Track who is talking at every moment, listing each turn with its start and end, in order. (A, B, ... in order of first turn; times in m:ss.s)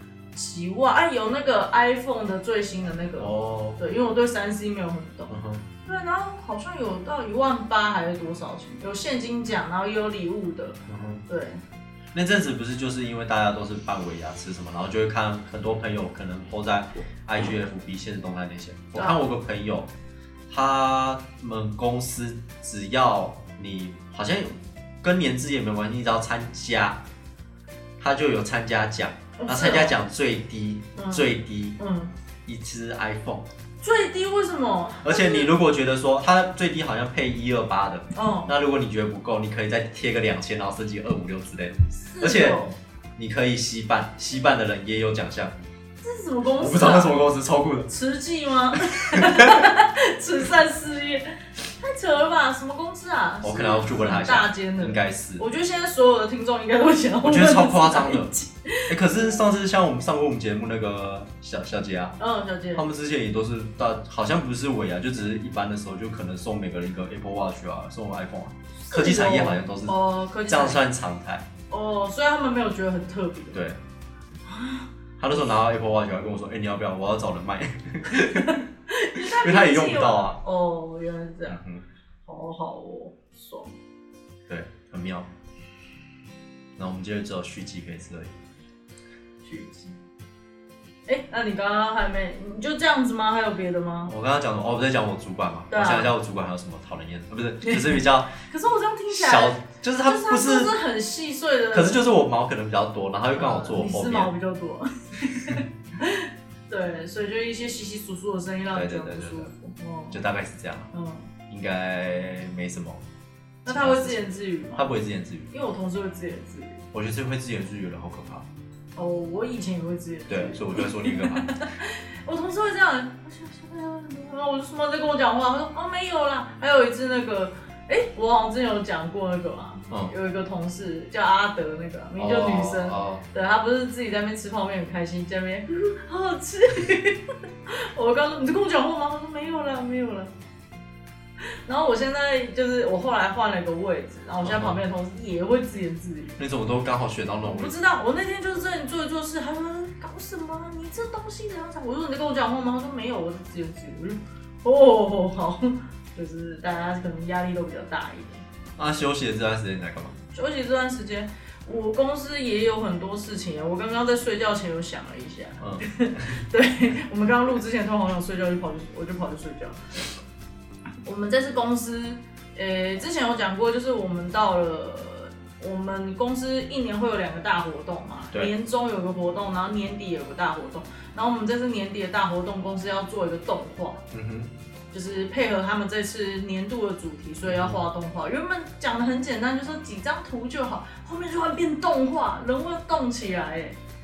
0:00.3-0:11.6 A
0:03.2-0:03.8 B
0:05.3-0:05.6 B
0:10.9-0:11.2 B
0:12.1-0:19.9 B
0:19.0-0:19.2 A
0:20.5-0:27.0 B
0:28.0-0:31.8 B
0:29.4-0:29.9 A
0:30.9-0:32.1 A
0:32.4-0:33.4 B
0:33.8-0:35.5 A
0:35.0-0:42.6 B
0:38.1-0:38.5 A
0:42.0-0:42.7 A
0:43.2-0:45.5 B
0:46.0-0:47.2 A
0:46.6-0:47.9 B
0:47.9-0:58.9 A
0:49.0-0:49.6 B
0:53.4-0:55.4 B
0:57.2-0:58.3 B
0:58.9-1:02.2 B
1:02.2-1:02.8 A
1:02.7-1:11.4 B
1:08.8-1:10.8 A
1:11.7-1:13.6 A
1:13.5-1:13.8 B
1:14.4-1:14.9 A
1:15.2-1:18.6 B
1:18.4-1:21.6 A
1:19.2-1:20.4 B
1:21.5-1:21.8 B
1:22.2-1:23.7 A
1:24.5-1:25.3 B
1:26.8-1:28.3 B
1:29.4-1:29.9 A
1:31.1-1:34.1 A
1:34.0-1:38.3 B
1:35.7-1:36.1 A
1:37.6-1:42.0 A
1:39.1-1:40.7 B
1:41.7-1:44.3 B
1:43.3-1:50.2 A
1:48.7-1:49.5 B
1:50.1-1:50.9 B
1:50.9-1:51.3 A
1:51.5-1:53.0 B
1:53.6-1:54.9 A
1:53.6-1:55.5 B
1:55.5-1:56.8 A
1:56.9-1:58.4 B
1:59.0-2:20.3 A
2:00.3-2:01.5 B
2:12.2-2:13.2 B
2:21.6-2:26.4 A
2:24.4-2:24.8 B
2:26.4-2:27.7 B
2:27.4-2:38.4 A
2:38.8-2:40.2 B
2:40.3-2:49.8 A
2:45.6-2:46.4 B
2:51.0-3:04.0 A
3:04.1-3:04.5 B
3:04.9-3:13.8 A
3:07.4-3:07.8 B